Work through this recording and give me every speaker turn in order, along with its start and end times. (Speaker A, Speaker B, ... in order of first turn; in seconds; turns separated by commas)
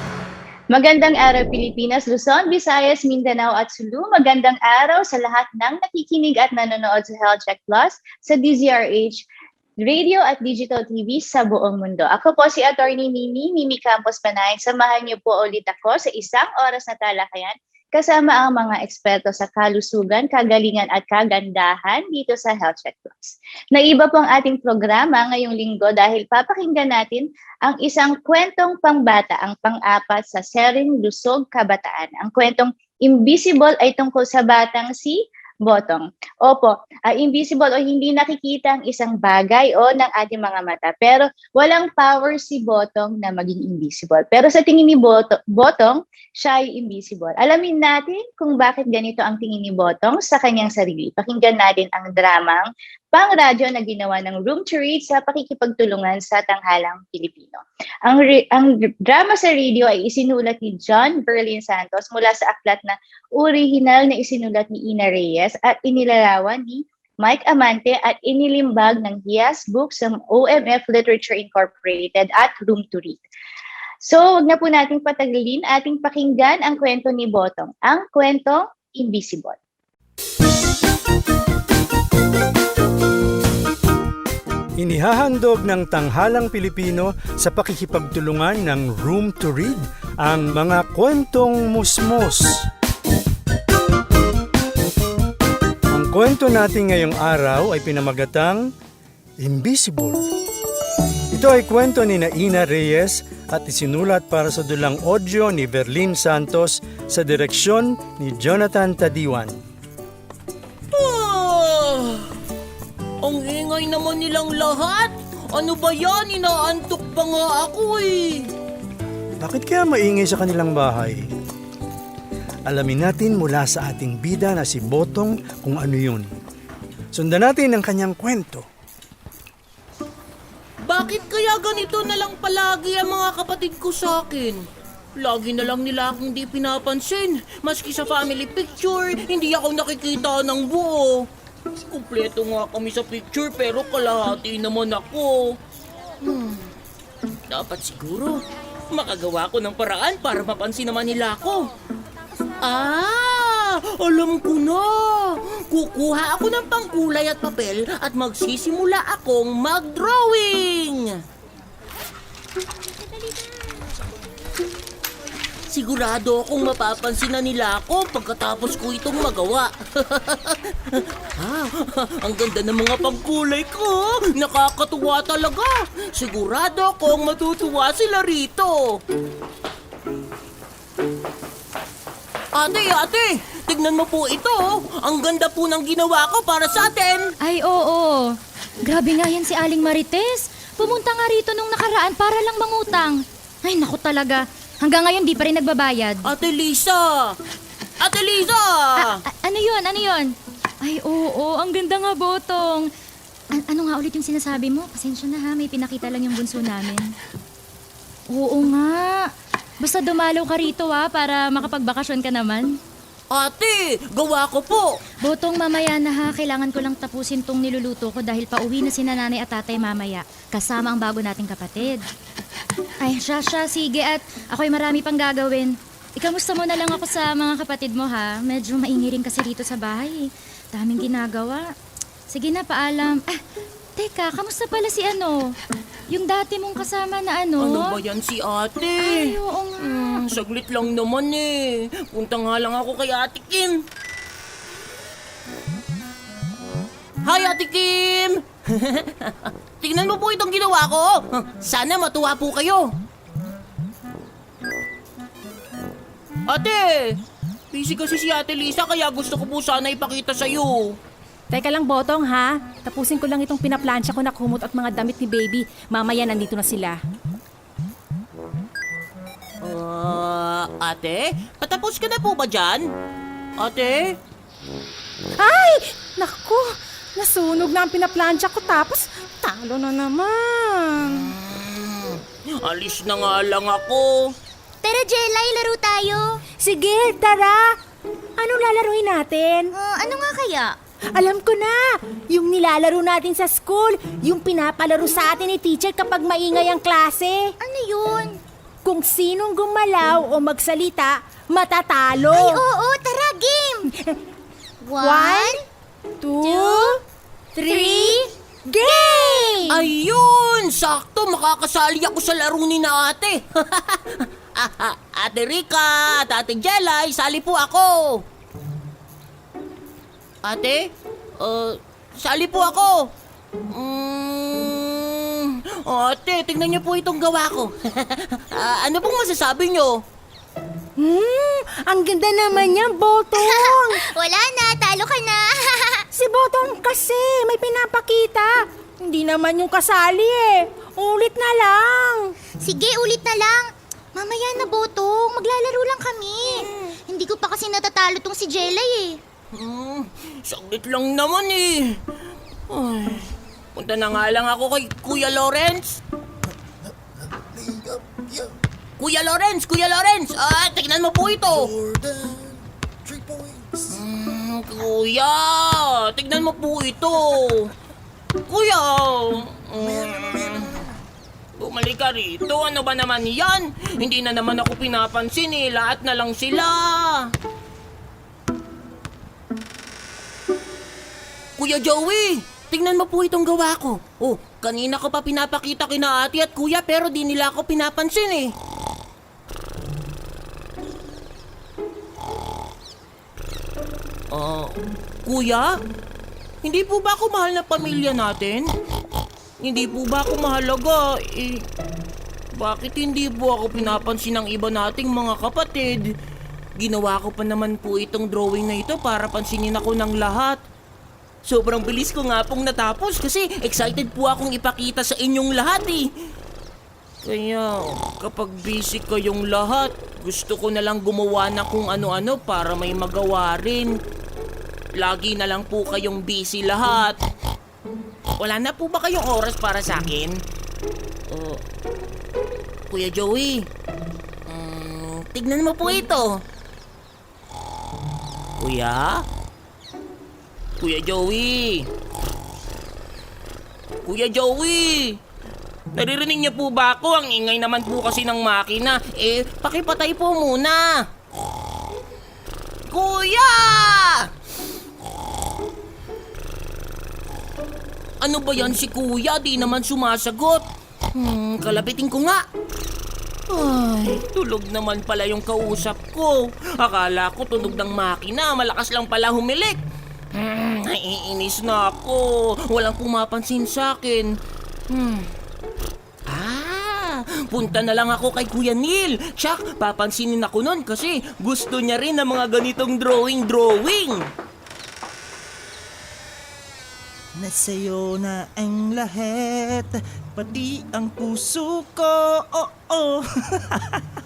Speaker A: 0.7-9.3, Speaker A: 9.8-73.2, Speaker A: 74.0-79.6, Speaker B: 84.8-92.7, Speaker B: 95.9-98.7, Speaker B: 99.4-100.2, Speaker B: 101.3-109.5, Speaker C: 110.9-112.3, Speaker C: 113.2-118.5, Speaker B: 119.4-121.3, Speaker B: 122.7-126.3, Speaker B: 127.1-128.7, Speaker C: 130.8-134.6, Speaker C: 135.2-141.2, Speaker C: 141.8-145.6, Speaker C: 146.2-146.6, Speaker C: 147.5-148.4, Speaker C: 148.9-151.6, Speaker C: 152.6-161.2, Speaker D: 163.2-163.7, Speaker C: 165.7-179.0, Speaker C: 182.6-187.3, Speaker E: 187.4-196.2, Speaker C: 196.2-197.3, Speaker C: 198.0-199.2, Speaker E: 199.0-200.3, Speaker E: 200.8-202.9, Speaker E: 203.6-207.1, Speaker E: 208.3-209.3, Speaker E: 209.8-212.8, Speaker C: 213.3-214.9, Speaker E: 215.2-222.0, Speaker E: 223.0-231.7, Speaker E: 232.3-233.4, Speaker E: 234.0-235.5, Speaker E: 236.1-237.9, Speaker C: 237.6-243.8, Speaker E: 239.0-240.2, Speaker C: 247.2-252.9, Speaker C: 256.5-257.2, Speaker C: 257.7-261.0, Speaker D: 261.5-267.0, Speaker C: 269.6-272.9, Speaker C: 273.6-274.1, Speaker D: 275.4-276.6, Speaker D: 277.2-281.3, Speaker C: 281.3-284.3, Speaker F: 284.8-286.4, Speaker D: 286.6-287.8, Speaker D: 288.4-289.7, Speaker F: 289.7-290.8, Speaker D: 291.1-297.5, Speaker F: 297.6-298.4, Speaker D: 298.8-302.6, Speaker F: 302.3-303.9, Speaker F: 304.8-305.6, Speaker D: 305.0-305.6, Speaker D: 306.2-307.0, Speaker F: 306.4-307.0, Speaker D: 307.6-309.7, Speaker F: 307.6-309.7, Speaker C: 309.7-318.2, Speaker C: 320.4-323.1, Speaker C: 323.7-330.0, Speaker D: 331.0-334.0, Speaker F: 333.3-336.0, Speaker D: 336.1-342.4, Speaker F: 342.6-349.2, Speaker C: 349.5-352.0, Speaker C: 352.7-356.0, Speaker G: 357.5-358.5, Speaker C: 359.0-361.7, Speaker G: 361.6-363.9, Speaker C: 363.9-367.7, Speaker C: 368.5-370.9, Speaker G: 369.8-370.9, Speaker C: 371.6-377.3, Speaker C: 381.6-388.5, Speaker C: 394.3-395.7, Speaker C: 396.6-398.7, Speaker C: 399.6-401.7, Speaker C: 402.6-406.1, Speaker C: 406.8-410.6, Speaker C: 411.4-416.1, Speaker C: 417.2-423.9, Speaker C: 425.0-427.2, Speaker C: 428.4-430.4, Speaker C: 431.3-431.6, Speaker C: 432.9-433.7, Speaker C: 434.5-436.4, Speaker C: 438.6-439.2, Speaker C: 440.8-441.9, Speaker C: 444.1-445.2, Speaker C: 445.9-450.9, Speaker C: 452.9-454.3, Speaker C: 458.2-462.4, Speaker C: 463.5-469.8, Speaker C: 470.4-474.3, Speaker C: 474.9-475.3, Speaker C: 476.3-484.3, Speaker G: 487.4-494.0